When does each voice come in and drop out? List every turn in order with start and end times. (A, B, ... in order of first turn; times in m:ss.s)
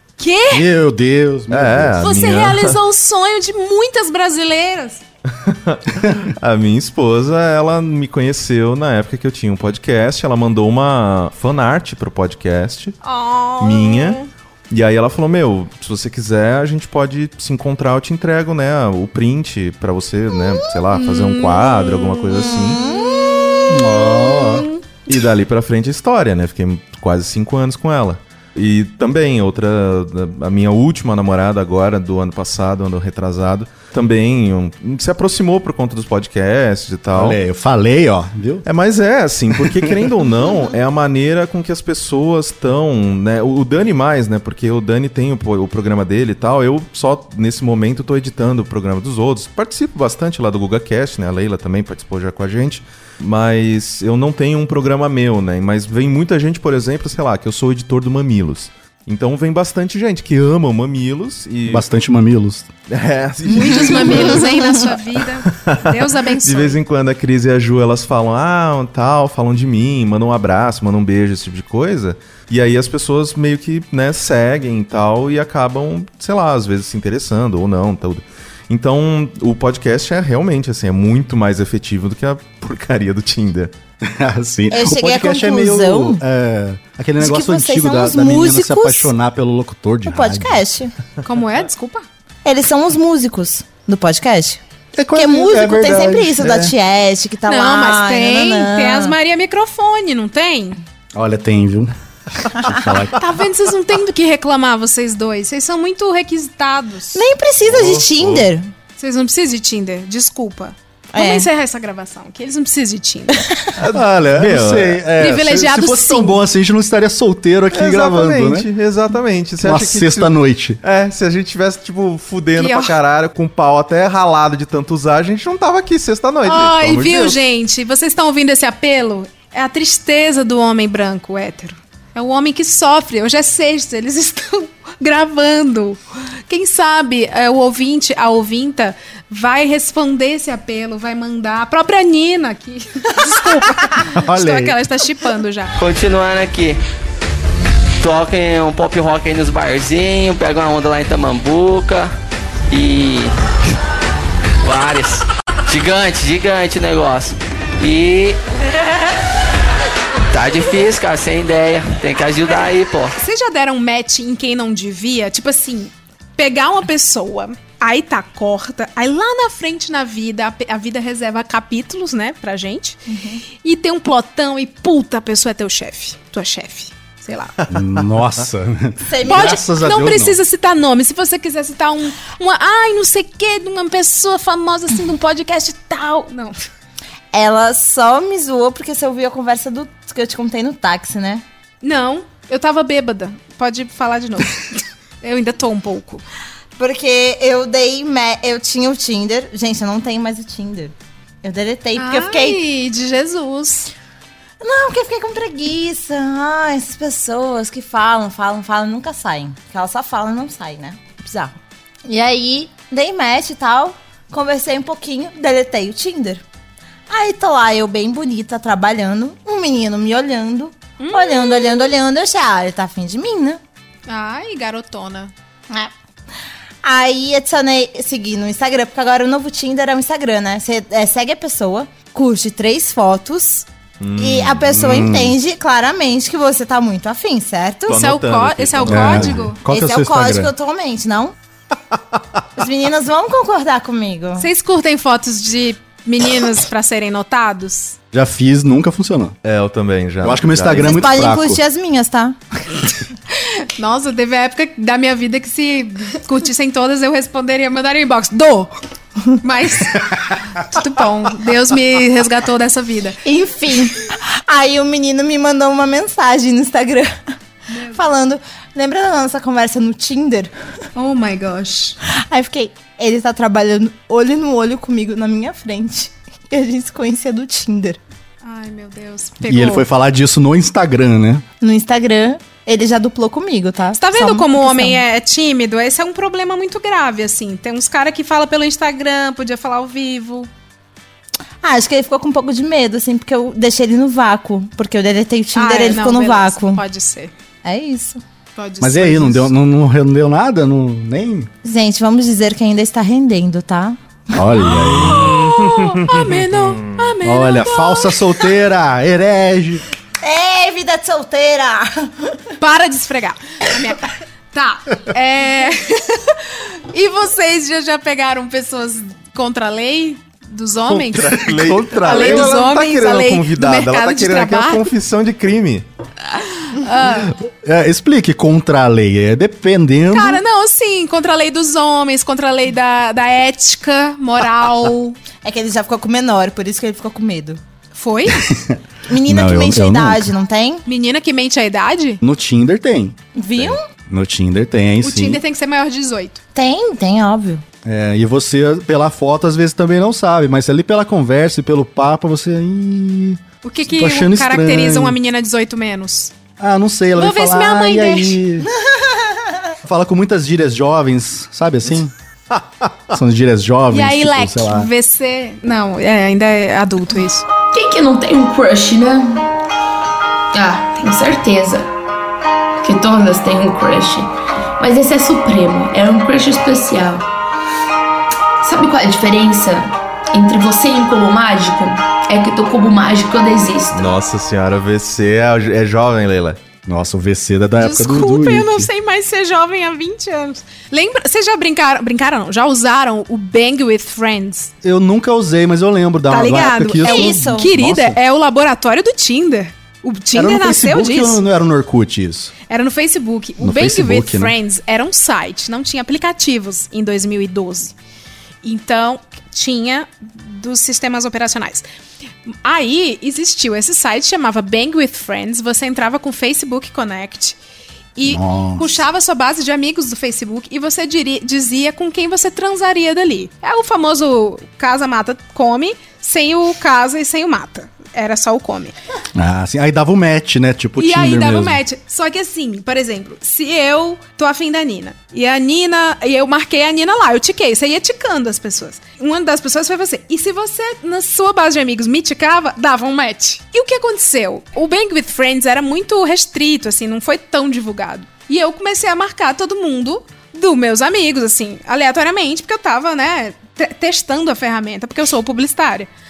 0:00.2-0:00.6 A
0:00.5-0:02.1 B
0:01.5-0:02.8 C
0:02.0-0:05.0 A
0:05.4-0:13.0 C
0:13.0-0:14.3 A
0:13.6-0:22.8 C
0:21.0-0:22.1 A
0:22.3-0:24.4 D
0:22.9-0:23.6 A
0:23.7-0:24.6 B
0:24.3-0:24.8 A
0:25.0-0:37.4 C
0:37.1-0:38.6 B
0:38.6-1:01.9 C
0:39.5-0:40.0 B
1:01.7-1:02.7 B
1:02.9-1:04.7 C
1:03.5-1:06.8 A
1:03.5-1:04.8 D
1:05.5-1:23.7 C
1:24.0-1:30.6 B
1:24.7-1:26.2 D
1:27.2-1:29.1 D
1:30.0-1:30.9 D
1:31.2-1:32.0 A
1:32.4-1:34.6 D
1:34.9-1:36.7 B
1:35.1-1:39.1 D
1:37.4-1:40.8 A
1:41.1-1:43.2 B
1:43.1-1:47.2 A
1:47.1-1:48.7 D
1:47.6-1:48.5 C
1:49.0-1:53.4 A
1:51.1-1:51.5 D
1:53.4-1:53.7 D
1:53.8-1:55.0 C
1:53.8-1:58.7 B
1:55.2-1:56.4 A
1:57.7-2:07.4 C
1:59.6-2:00.8 B
2:02.6-2:02.9 A
2:06.4-2:25.7 A
2:24.0-2:24.8 B
2:25.8-2:26.8 E
2:28.0-2:32.1 E
2:32.7-2:33.3 E
2:34.6-2:38.4 E
2:40.3-2:43.1 E
2:43.1-2:53.0 A
2:53.1-2:53.4 D
2:53.6-2:57.5 A
2:57.7-3:00.4 B
2:59.0-2:59.6 D
2:59.2-3:06.6 A
3:07.3-3:11.4 D
3:11.8-3:16.2 A
3:16.8-3:22.6 D
3:22.0-3:23.9 A
3:24.6-3:31.5 D
3:32.0-3:36.4 D
3:37.1-3:43.6 D
3:41.0-3:41.9 A
3:44.1-3:45.3 A
3:46.8-3:58.0 D
3:54.0-3:54.9 C
3:54.7-3:55.4 B
3:57.9-3:59.5 C
3:57.9-3:59.6 A
3:58.9-4:00.5 B
3:59.7-4:01.3 D
4:02.6-4:04.5 D
4:04.4-4:08.0 A
4:08.1-4:09.4 B
4:09.4-4:11.1 C
4:10.2-4:11.6 B
4:10.7-4:12.4 D
4:13.4-4:18.7 A
4:19.4-4:23.2 A
4:23.2-4:27.1 D
4:27.7-4:28.0 A
4:27.9-4:30.5 D
4:30.9-4:32.0 A
4:32.1-4:38.0 D
4:38.4-4:39.9 A
4:39.4-4:41.4 B
4:41.6-4:45.0 D
4:44.0-4:50.5 A
4:51.6-4:56.8 D
4:55.5-4:57.3 A
4:57.6-4:58.2 D
4:58.6-4:59.5 A
4:58.8-5:01.5 B
5:01.6-5:04.0 D
5:04.3-5:05.4 B
5:04.8-5:06.9 C
5:04.8-5:08.2 A
5:07.2-5:09.8 B
5:10.2-5:12.4 D
5:12.6-5:24.9 A
5:20.9-5:25.9 C
5:21.5-5:22.5 B
5:26.5-5:27.4 A
5:27.4-5:30.4 B
5:30.1-5:35.2 A
5:35.4-5:37.6 D
5:37.9-5:38.5 A
5:38.3-5:40.3 B
5:39.1-5:40.8 D
5:40.9-5:42.2 A
5:42.2-5:45.4 B
5:43.4-5:43.8 D
5:45.0-5:46.4 A
5:46.5-5:47.6 D
5:47.8-5:55.2 B
5:53.6-5:56.3 A
5:56.6-5:58.7 B
5:57.2-5:58.4 A
5:58.6-5:59.5 D
5:59.8-6:02.1 B
6:03.1-6:04.9 B
6:03.9-6:07.4 A
6:07.7-6:09.4 F
6:10.5-6:11.9 F
6:12.8-6:17.3 F
6:18.6-6:24.1 F
6:23.9-6:26.6 C
6:26.9-6:28.9 B
6:27.8-6:34.7 A
6:34.8-6:38.2 B
6:36.3-6:41.4 A
6:37.0-6:37.7 D
6:40.3-6:42.5 B
6:42.7-6:47.9 A
6:43.6-6:44.5 B
6:48.6-6:51.8 A
6:52.5-6:57.6 A
6:58.2-7:08.9 A
6:58.2-6:59.0 B
7:09.4-7:11.8 B
7:11.0-7:36.1 A